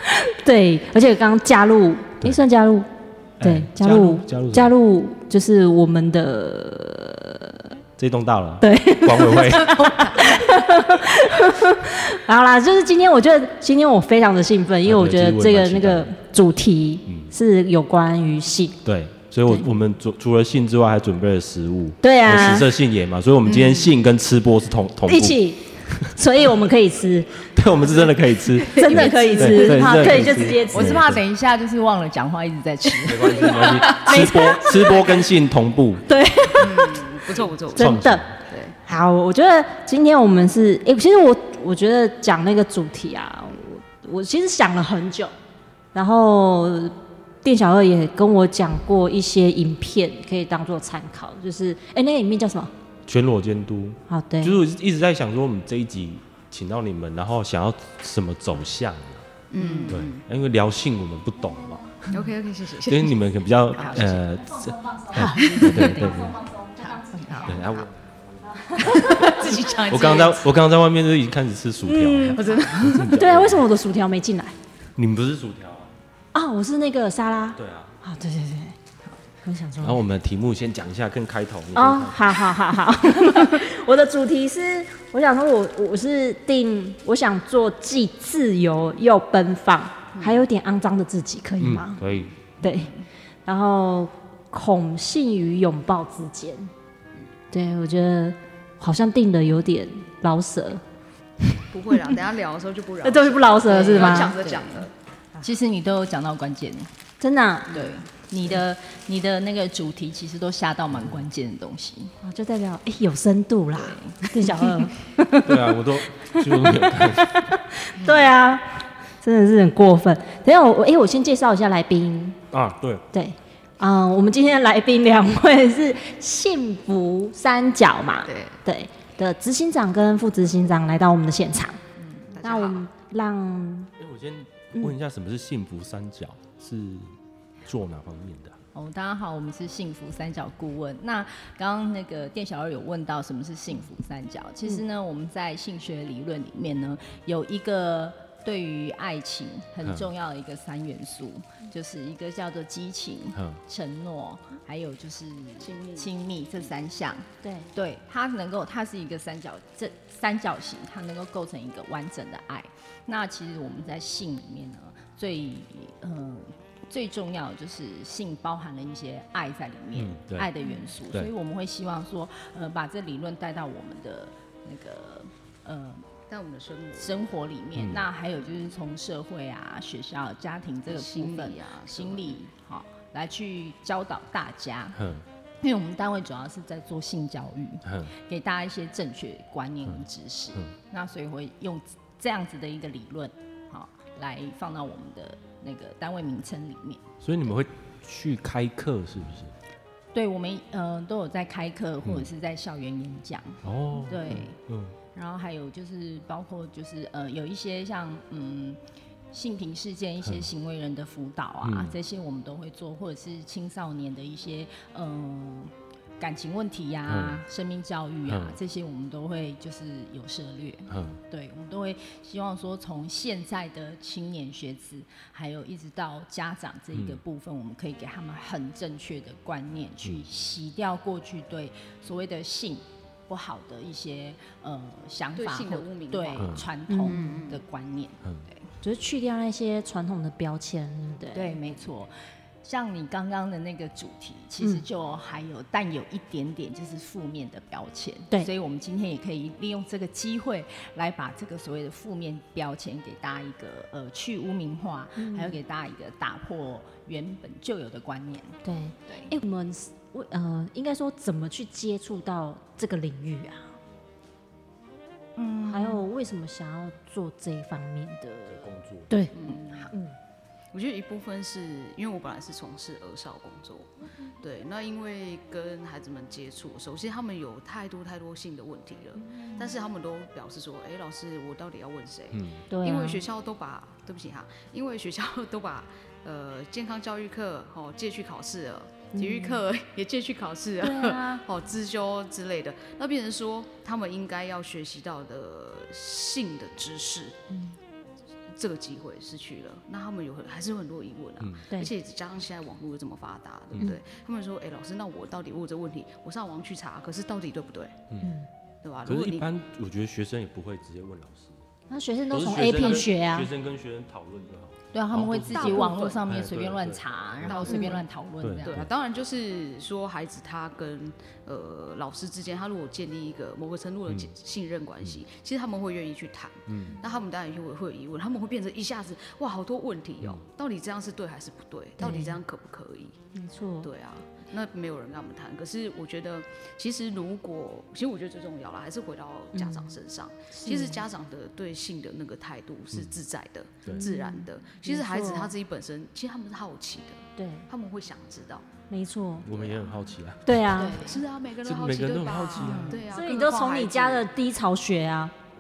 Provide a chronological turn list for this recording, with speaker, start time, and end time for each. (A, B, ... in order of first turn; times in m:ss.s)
0:00.2-0:07.7 A
0:03.4-0:04.7 B
0:08.0-0:10.3 B
0:08.6-0:18.8 A
0:14.8-0:16.2 B
0:17.0-0:17.3 B
0:18.8-0:26.5 B
0:22.0-0:22.7 A
0:23.4-0:23.9 C
0:25.0-0:27.5 A
0:27.5-0:31.2 B
0:28.7-0:31.0 A
0:28.8-0:33.9 D
0:33.0-0:36.1 B
0:34.0-0:34.9 A
0:34.8-0:35.3 C
0:36.1-0:37.1 A
0:36.6-0:38.8 C
0:37.7-0:38.4 B
0:37.7-0:38.3 A
0:38.8-0:45.3 A
0:45.9-0:52.7 A
0:53.1-0:59.3 B
0:54.1-0:54.6 A
0:59.5-1:00.2 C
0:59.6-1:00.0 D
0:59.9-1:02.2 B
1:02.1-1:03.2 C
1:02.8-1:06.4 B
1:03.7-1:04.2 C
1:04.8-1:07.2 A
1:05.2-1:05.9 C
1:05.3-1:06.1 D
1:06.8-1:07.9 C
1:07.1-1:07.6 D
1:07.4-1:13.7 B
1:08.4-1:09.2 A
1:08.8-1:10.5 C
1:11.8-1:14.6 A
1:12.4-1:13.1 C
1:15.0-1:15.9 B
1:16.3-1:18.8 A
1:17.6-1:18.0 B
1:19.4-1:20.0 A
1:19.8-1:22.5 B
1:21.8-1:32.0 A
1:30.2-1:30.4 C
1:31.6-1:32.3 B
1:32.6-1:32.9 A
1:32.6-1:32.9 D
1:33.4-1:36.7 A
1:37.5-1:40.8 A
1:41.7-1:44.9 C
1:43.0-1:44.4 A
1:43.7-1:44.9 D
1:45.4-1:46.9 D
1:47.2-1:47.8 A
1:47.7-1:52.2 D
1:50.9-1:51.2 B
1:52.2-2:02.4 A
1:53.7-1:54.6 D
1:55.4-1:57.6 B
1:58.0-1:58.3 D
2:02.5-2:03.0 B
2:03.1-2:11.8 A
2:08.2-2:08.6 C
2:12.0-2:12.4 D
2:12.4-2:12.9 C
2:12.4-2:13.9 A
2:14.0-2:18.6 B
2:18.7-2:56.1 D
2:29.8-2:30.1 B
2:33.3-2:33.6 B
2:35.6-2:36.1 C
2:37.4-2:37.7 A
2:49.9-2:50.5 B
2:50.6-2:50.9 A
2:51.1-2:51.3 B
2:56.3-2:57.3 C
2:57.0-3:05.1 D
2:57.8-2:58.1 B
3:00.9-3:02.4 C
3:04.9-3:05.2 B
3:05.6-3:17.5 D
3:07.8-3:08.1 B
3:09.8-3:10.7 B
3:17.2-3:19.5 B
3:20.1-3:24.6 D
3:22.0-3:22.3 B
3:23.6-3:25.0 B
3:25.1-3:28.8 D
3:29.3-3:58.7 D
3:30.2-3:30.5 B
3:31.6-3:32.0 B
3:37.0-3:37.4 B
3:38.3-3:38.6 B
3:40.9-3:41.2 B
3:46.9-3:47.2 B
3:55.3-3:57.6 C
3:56.4-3:56.7 B
3:56.9-3:57.4 A
3:58.8-4:01.6 A
4:01.3-4:02.1 D
4:02.6-4:19.3 D
4:15.2-4:15.6 A
4:18.6-4:23.8 A
4:25.4-4:26.0 D
4:25.6-4:30.2 A
4:28.5-4:29.1 B
4:29.3-4:29.9 C
4:29.4-4:29.9 D
4:30.7-4:57.4 C
4:39.2-4:39.7 A
4:42.3-4:42.6 B
4:42.7-4:43.2 A
4:49.1-4:49.6 A
4:50.8-4:51.4 A
4:57.5-4:57.8 A
4:58.5-5:08.0 C
5:01.4-5:01.6 B
5:08.2-5:08.5 A
5:08.8-5:09.5 C
5:09.0-5:11.6 B
5:11.9-5:13.5 A
5:12.3-5:17.7 B
5:14.9-5:18.9 D
5:15.5-5:16.3 C
5:17.4-5:18.0 C
5:17.6-5:18.0 A
5:18.4-5:18.9 B
5:18.6-5:33.2 C
5:24.1-5:24.3 B
5:26.7-5:27.0 B
5:32.0-5:32.4 A
5:33.3-5:33.9 A
5:33.8-5:48.7 C
5:39.5-5:40.0 A
5:40.5-5:41.0 A
5:42.9-5:43.2 B
5:44.0-5:45.5 A
5:47.4-5:47.7 A
5:48.9-5:49.5 A
5:49.4-5:50.8 B
5:49.4-5:50.1 C
5:50.4-5:51.1 A
5:50.7-5:51.2 D
5:51.0-5:54.3 C
5:51.6-5:53.0 B
5:52.6-5:53.0 D
5:53.1-5:55.3 A